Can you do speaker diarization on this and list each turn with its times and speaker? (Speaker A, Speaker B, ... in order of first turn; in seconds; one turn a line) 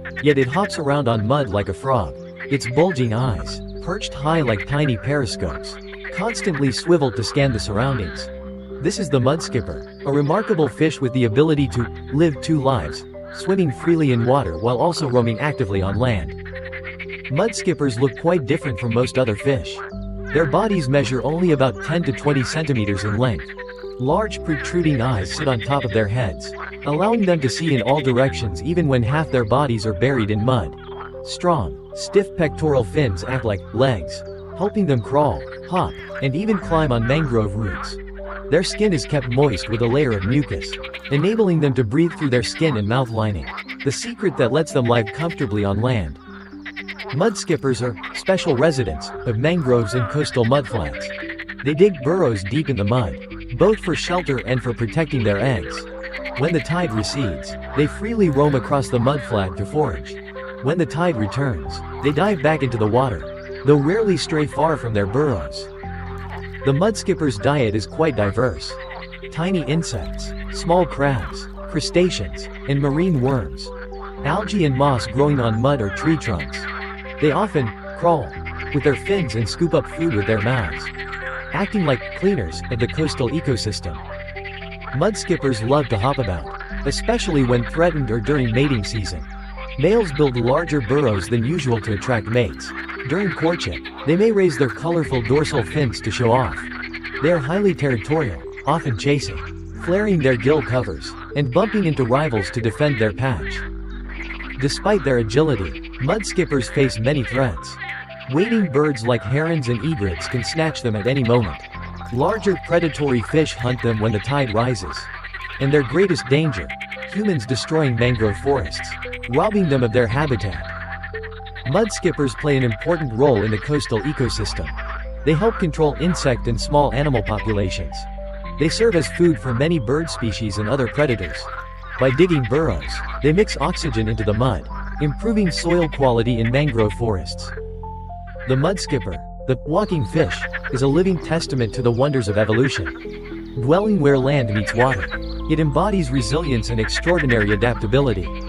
Speaker A: 0.2-16.4
Speaker A: 17.3-46.2
Speaker A: 47.1-65.7
Speaker A: 66.6-80.9
Speaker A: 81.5-84.0
Speaker A: 84.9-103.7
Speaker A: 104.5-120.7
Speaker A: 121.6-137.5
Speaker A: 138.4-143.0
Speaker A: 143.5-148.3